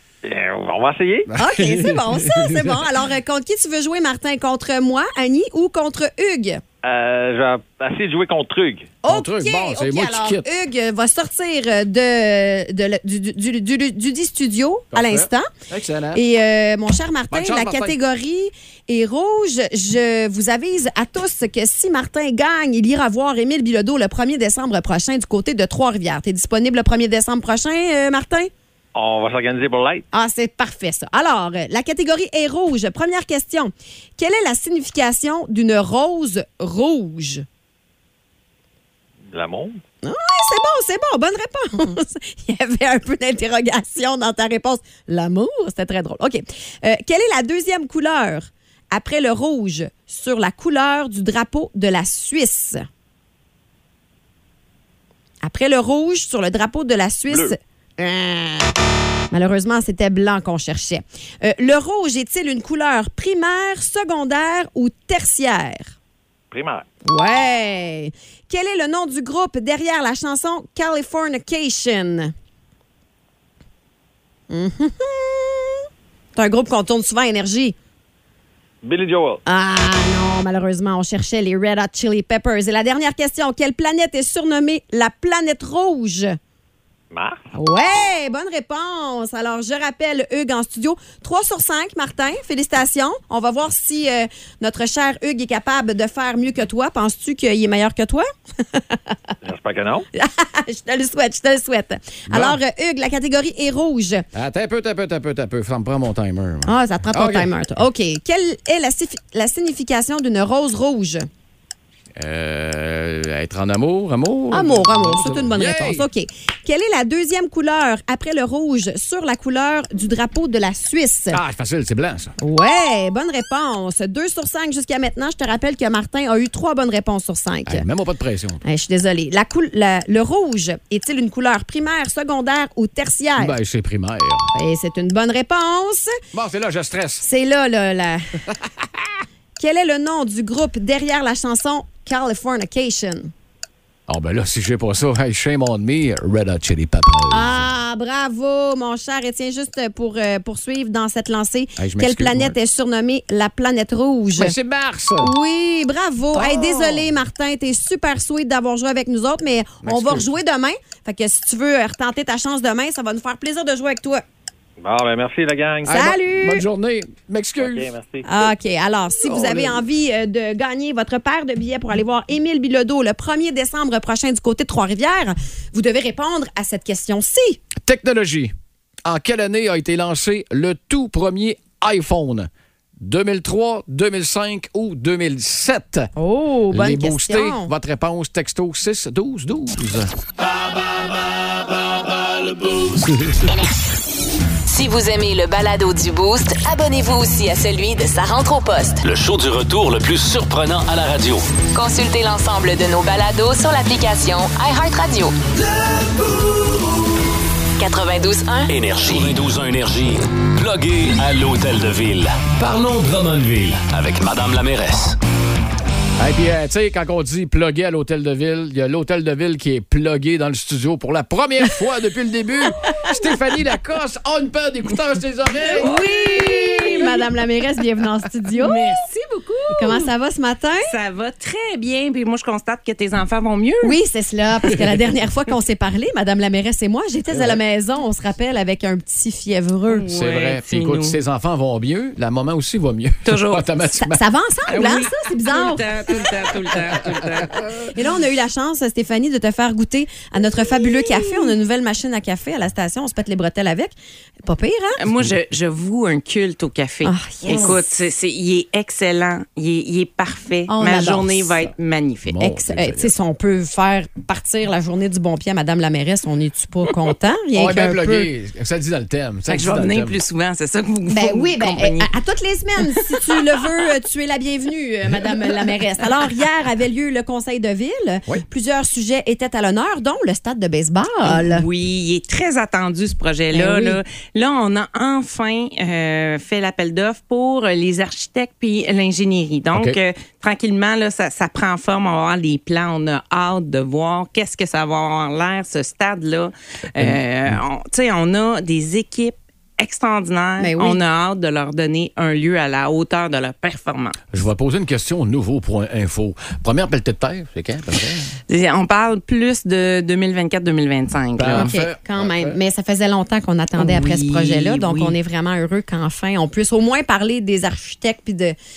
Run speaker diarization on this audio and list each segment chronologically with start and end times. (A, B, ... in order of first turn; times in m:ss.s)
0:00.2-0:01.3 A
0:01.3-0:02.9 B
0:01.4-0:06.6 C
0:06.8-0:08.9 A
0:09.0-0:15.5 C
0:09.1-0:10.5 B
0:14.9-0:16.2 B
0:16.1-0:28.5 C
0:17.3-0:18.0 B
0:29.0-0:30.0 A
0:30.1-0:37.4 C
0:39.3-0:39.8 A
0:40.0-0:52.9 C
0:55.4-0:58.7 C
0:57.3-0:57.6 A
0:59.3-1:05.9 C
1:06.5-1:06.8 A
1:07.1-1:12.3 C
1:14.5-1:15.8 C
1:16.4-1:17.8 C
1:18.8-1:19.4 A
1:19.5-1:26.4 C
1:27.1-1:27.4 A
1:27.5-1:39.2 C
1:39.4-1:40.1 A
1:40.2-1:44.2 C
1:42.3-1:42.6 B
1:44.3-1:47.5 B
1:46.7-1:51.3 C
1:52.2-1:56.1 B
1:54.5-2:01.4 C
2:01.3-2:02.3 B
2:02.4-2:07.8 C
2:07.7-2:08.6 B
2:08.6-2:13.6 C
2:13.4-2:14.5 B
2:14.5-2:16.1 C
2:16.3-2:17.2 B
2:17.2-2:18.3 C
2:18.6-2:19.0 B
2:19.6-2:23.3 C
2:24.1-2:27.7 B
2:27.3-2:34.5 C
2:31.8-2:32.6 B
2:34.4-2:35.3 B
2:35.2-2:44.2 C
2:36.3-2:37.1 B
2:39.8-2:40.3 B
2:44.8-2:46.0 A
2:45.8-2:47.9 B
2:45.9-2:46.6 C
2:47.6-2:48.2 A
2:48.2-2:57.6 C
2:49.2-2:49.8 B
2:57.8-2:58.5 B
2:59.0-3:06.1 B
3:06.2-3:07.7 C
3:06.7-3:10.1 B
3:13.1-3:13.4 B
3:14.7-3:19.0 D
3:19.0-3:21.5 E
3:21.7-3:25.4 D
3:27.8-3:29.2 D
3:28.7-3:35.2 E
3:36.2-3:46.0 B
3:45.7-3:49.0 C
3:45.7-3:47.2 F
3:48.6-3:50.1 F
3:49.7-3:50.9 C
3:50.8-3:54.0 F
3:53.8-4:00.1 C
3:57.3-3:57.6 B
3:59.9-4:01.2 F
4:00.1-4:04.2 B
4:03.2-4:03.6 F
4:04.0-4:05.9 C
4:04.7-4:07.6 F
4:07.2-4:07.7 B
4:07.9-4:15.0 C
4:11.0-4:11.5 F
4:15.0-4:22.4 F
4:17.0-4:17.8 C
4:20.7-4:21.6 C
4:22.2-4:23.1 B
4:22.4-4:28.3 C
4:27.5-4:30.2 B
4:29.5-4:32.1 F
4:31.1-4:41.6 C
4:33.0-4:33.4 F
4:41.2-5:04.2 F
4:43.5-4:44.0 C
4:57.0-4:57.6 B
5:00.6-5:01.0 C
5:04.3-5:08.4 B
5:08.5-5:11.7 F
5:11.4-5:12.6 B
5:11.5-5:18.6 C
5:13.8-5:15.2 F